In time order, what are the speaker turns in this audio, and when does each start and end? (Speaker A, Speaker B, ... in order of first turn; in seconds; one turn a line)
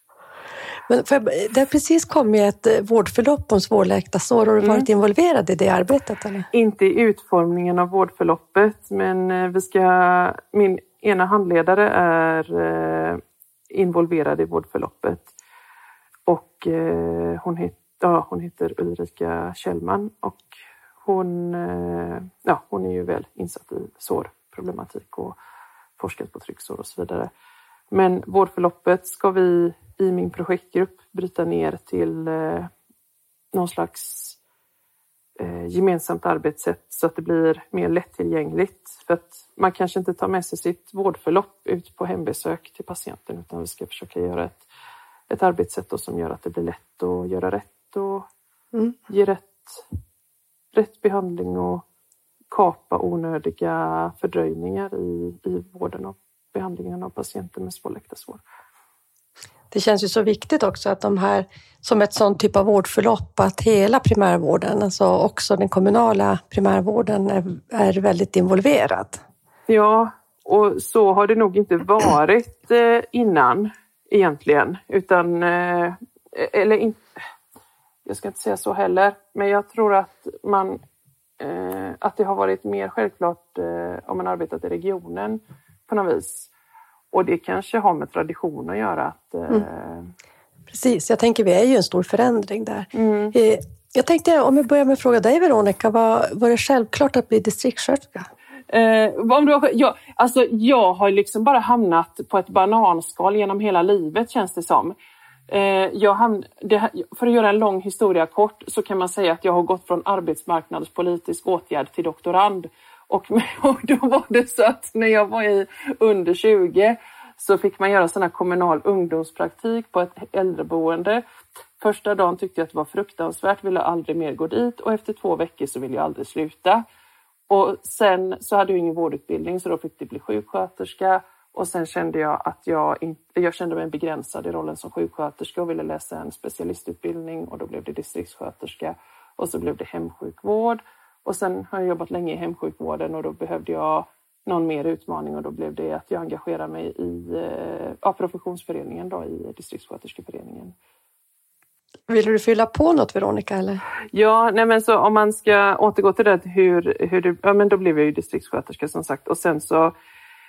Speaker A: 0.9-6.5
Speaker B: 4.6-4.9
Speaker B: 6.5-15.3
Speaker B: 16.3-20.5
Speaker B: 21.0-25.4
Speaker B: 26.0-27.3
Speaker B: 27.9-32.7
Speaker B: 33.5-34.4
Speaker B: 35.4-44.6
Speaker B: 45.3-48.3
Speaker B: 49.1-49.9
Speaker B: 50.7-51.8
Speaker B: 52.5-58.4
Speaker A: 59.7-69.2
Speaker B: 69.7-77.0
Speaker B: 78.0-80.8
Speaker B: 81.4-86.5
Speaker B: 87.1-90.1
Speaker A: 90.7-98.3
Speaker B: 92.9-93.3
Speaker B: 98.7-104.9
Speaker B: 105.5-121.2
Speaker B: 121.8-126.8
Speaker B: 127.5-150.7
Speaker A: 152.1-153.8
Speaker B: 154.1-159.9